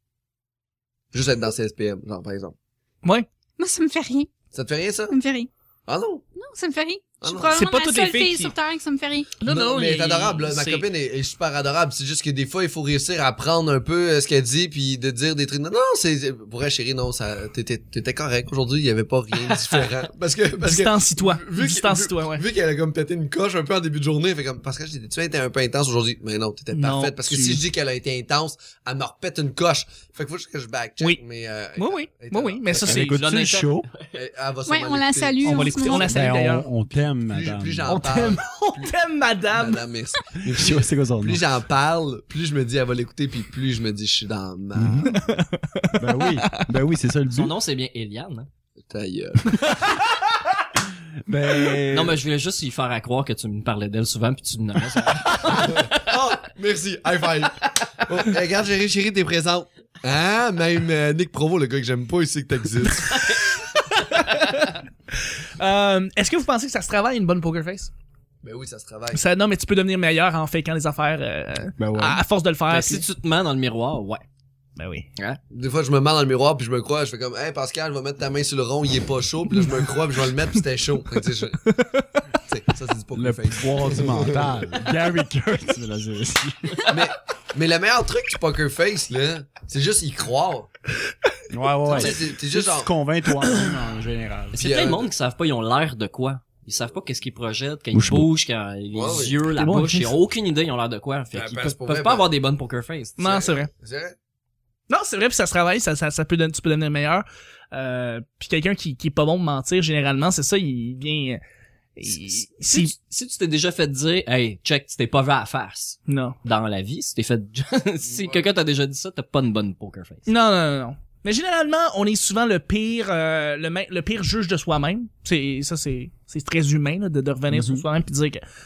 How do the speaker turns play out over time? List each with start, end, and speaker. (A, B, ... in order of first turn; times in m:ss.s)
0:01.1-0:02.5 A
0:03.6-0:04.3 B
0:04.5-0:05.2 A
0:05.1-0:05.5 B
0:05.9-0:06.2 A
0:06.4-0:09.3 B
0:07.2-0:07.6 A
0:07.5-0:08.5 C
0:09.4-0:10.8 C
0:09.4-0:33.1 A
0:20.6-0:22.4 C
0:26.7-0:27.6 C
0:31.8-0:33.2 C
0:32.8-0:34.1 D
0:32.8-0:33.9 E
0:34.1-0:36.1 A
0:34.7-0:36.2 B
0:35.4-0:36.7 C
0:35.9-0:38.0 E
0:37.3-0:39.0 A
0:37.8-0:39.8 C
0:39.5-0:45.2 A
0:40.4-0:41.4 E
0:44.8-0:45.3 E
0:45.0-0:46.7 C
0:46.0-0:47.5 E
0:47.3-0:48.5 D
0:48.9-0:49.8 A
0:51.2-0:52.2 E
0:51.9-0:56.0 D
0:55.5-1:03.3 A
1:03.0-1:07.9 C
1:08.4-1:09.2 A
1:09.1-1:13.0 C
1:11.8-1:12.2 E
1:12.7-1:14.2 D
1:14.8-1:15.1 C
1:15.5-1:21.6 A
1:21.6-1:22.1 C
1:22.4-1:24.6 A
1:23.1-1:26.8 E
1:26.9-1:30.7 A
1:31.5-1:34.6 E
1:31.9-1:32.9 A
1:33.4-1:33.7 C
1:34.5-1:43.2 D
1:34.6-1:35.1 A
1:37.9-1:38.3 E
1:38.9-1:39.4 A
1:39.5-1:40.1 C
1:41.3-1:42.3 A
1:43.2-1:43.7 C
1:43.2-1:44.1 A
1:44.9-1:51.4 C
1:52.0-1:52.9 C
1:52.1-2:00.3 D
1:56.1-1:56.4 C
1:58.0-1:58.5 A
2:00.2-2:08.4 C
2:07.5-2:07.8 E